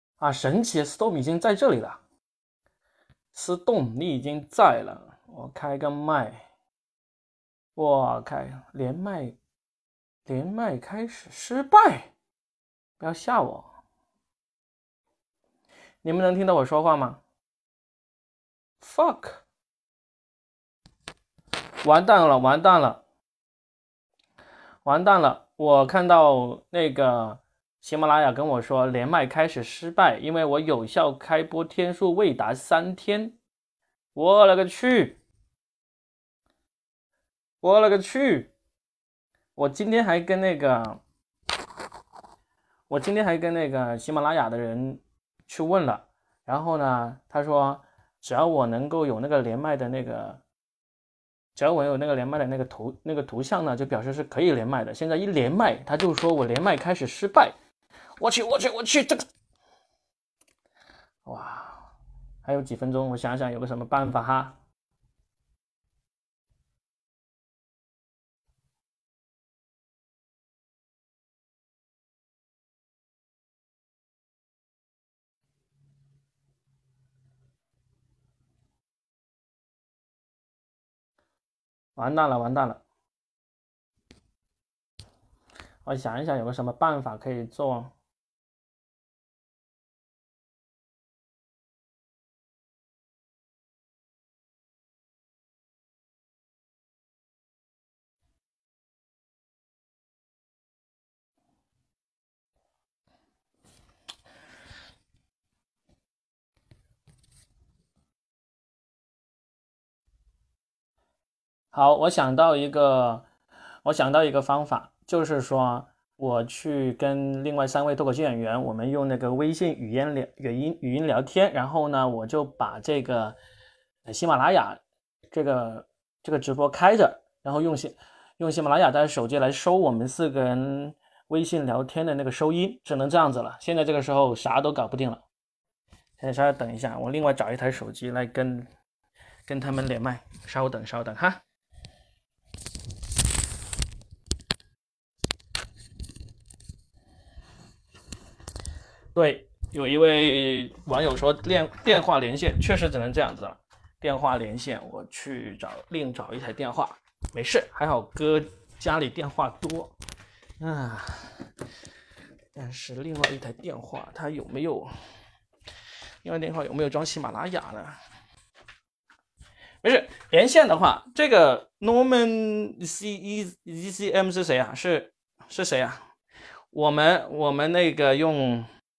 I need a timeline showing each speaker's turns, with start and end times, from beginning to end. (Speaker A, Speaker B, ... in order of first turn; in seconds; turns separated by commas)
Speaker A: 0.2-2.0, Speaker A: 3.3-6.5, Speaker A: 7.8-9.3, Speaker A: 10.3-12.1, Speaker A: 13.0-13.7, Speaker A: 16.0-17.2, Speaker A: 18.8-19.4, Speaker A: 21.8-23.0, Speaker A: 24.9-33.4, Speaker A: 34.1-35.2, Speaker A: 37.6-38.5, Speaker A: 39.6-41.0, Speaker A: 42.9-50.4, Speaker A: 51.5-57.5, Speaker A: 58.2-59.2, Speaker A: 61.3-61.9, Speaker A: 62.4-64.6, Speaker A: 82.0-82.8, Speaker A: 85.8-87.9, Speaker A: 111.7-113.3, Speaker A: 113.8-123.4, Speaker A: 124.1-124.8, Speaker A: 125.3-135.2, Speaker A: 136.2-138.7, Speaker A: 139.5-141.4, Speaker A: 149.2-159.9, Speaker A: 160.6-161.3, Speaker A: 162.6-164.9, Speaker A: 166.2-168.0, Speaker A: 169.8-176.0, Speaker A: 176.7-178.7